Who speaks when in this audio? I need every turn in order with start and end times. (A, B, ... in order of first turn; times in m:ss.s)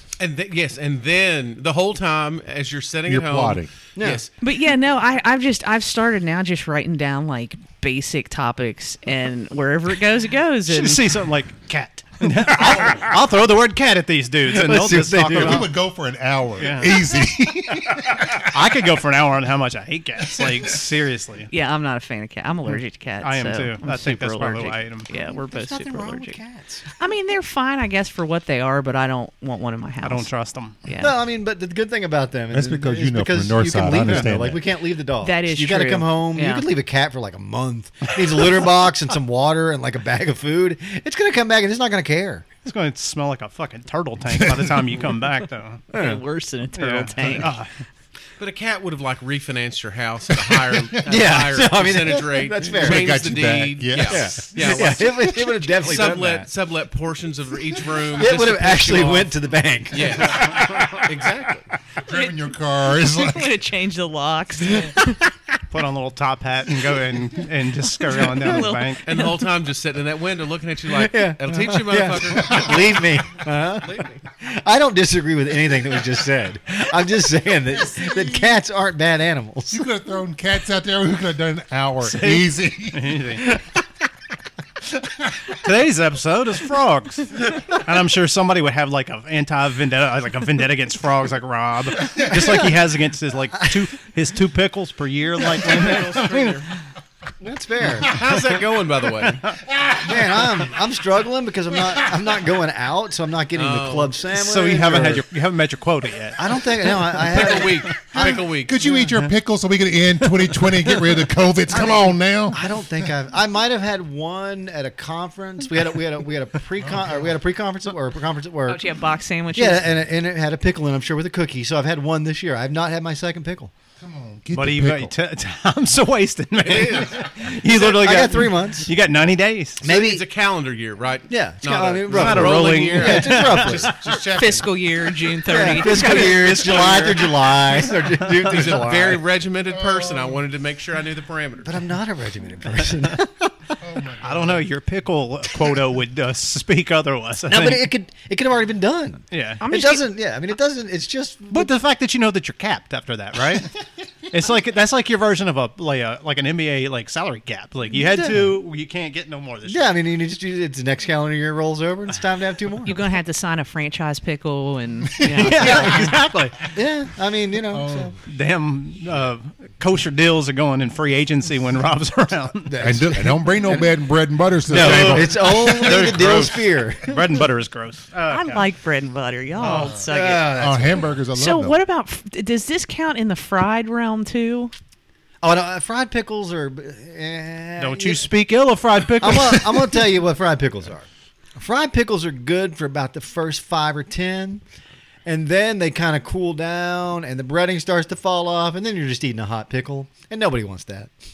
0:00.2-0:04.3 A
0:03.1-0:03.7 B
0:04.0-0:04.2 C
0:04.4-0:11.0 D
0:10.7-0:15.7 E
0:12.5-0:13.2 C
0:14.5-0:15.7 C
0:15.3-0:18.5 B
0:16.6-0:17.0 E
0:18.4-0:21.5 E
0:20.4-0:20.7 B
0:21.5-0:26.4 D
0:23.2-0:25.1 E
0:25.1-0:26.9 C
0:27.0-0:30.3 D
0:30.0-0:30.8 E
0:30.8-0:31.1 D
0:31.0-0:42.6 C
0:32.5-0:34.6 B
0:34.0-0:34.3 E
0:35.2-0:36.7 D
0:42.6-0:45.8 E
0:44.4-0:44.8 B
0:45.9-0:47.6 D
0:45.9-0:46.2 C
0:46.7-0:47.7 E
0:48.4-0:59.3 A
0:51.0-0:53.2 C
0:52.6-0:55.5 B
0:54.0-0:56.5 C
0:58.1-1:01.1 C
0:59.9-1:01.7 A
1:02.0-1:03.6 B
1:02.1-1:05.3 D
1:05.7-1:09.0 E
1:08.2-1:09.4 D
1:09.0-1:13.1 A
1:10.9-1:19.8 C
1:12.3-1:12.8 B
1:13.8-1:14.2 A
1:17.7-1:18.6 B
1:19.7-1:23.2 B
1:22.0-1:23.6 E
1:25.4-1:36.7 E
1:32.2-1:32.8 C
1:35.6-1:36.7 A
1:37.4-1:38.2 C
1:38.0-1:39.6 A
1:39.7-1:40.4 B
1:40.0-1:45.2 C
1:43.5-1:44.2 A
1:44.3-1:47.9 E
1:46.3-1:49.1 C
1:47.1-1:48.8 A
1:48.2-1:53.1 B
1:50.3-1:51.2 E
1:51.7-1:58.8 C
1:56.8-1:57.3 B
1:58.6-1:59.8 D
1:59.5-2:03.7 C
2:04.0-2:05.1 B
2:04.5-2:09.8 E
2:06.6-2:07.4 A
2:07.4-2:08.9 C
2:09.8-2:14.6 A
2:09.8-2:10.2 C
2:11.3-2:14.0 C
2:12.1-2:14.0 E
2:13.9-2:14.6 B
2:14.3-2:16.5 D
2:15.5-2:19.2 C
2:15.8-2:17.9 E
2:16.0-2:21.8 A
2:19.7-2:20.4 B
2:21.6-2:23.8 C
2:23.8-2:24.6 B
2:24.2-2:27.9 E
2:27.5-2:31.7 C
2:29.3-2:29.6 E
2:29.6-2:30.0 D
2:31.5-2:39.9 E
2:38.0-2:38.5 C
2:39.6-2:43.0 C
2:42.8-2:46.4 D
2:45.1-2:45.5 B
2:45.4-2:46.7 E
2:45.4-2:48.2 C
2:47.7-2:48.1 B
2:48.2-2:52.7 E
2:52.6-2:53.9 C
2:52.8-2:56.6 B
2:54.7-2:57.4 C
2:54.7-2:58.6 E
2:58.2-3:00.6 D
2:59.6-3:01.1 C
3:00.5-3:01.8 B
3:01.3-3:04.7 D
3:05.4-3:08.3 C
3:07.8-3:10.0 E
3:09.2-3:14.6 C
3:15.2-3:21.1 C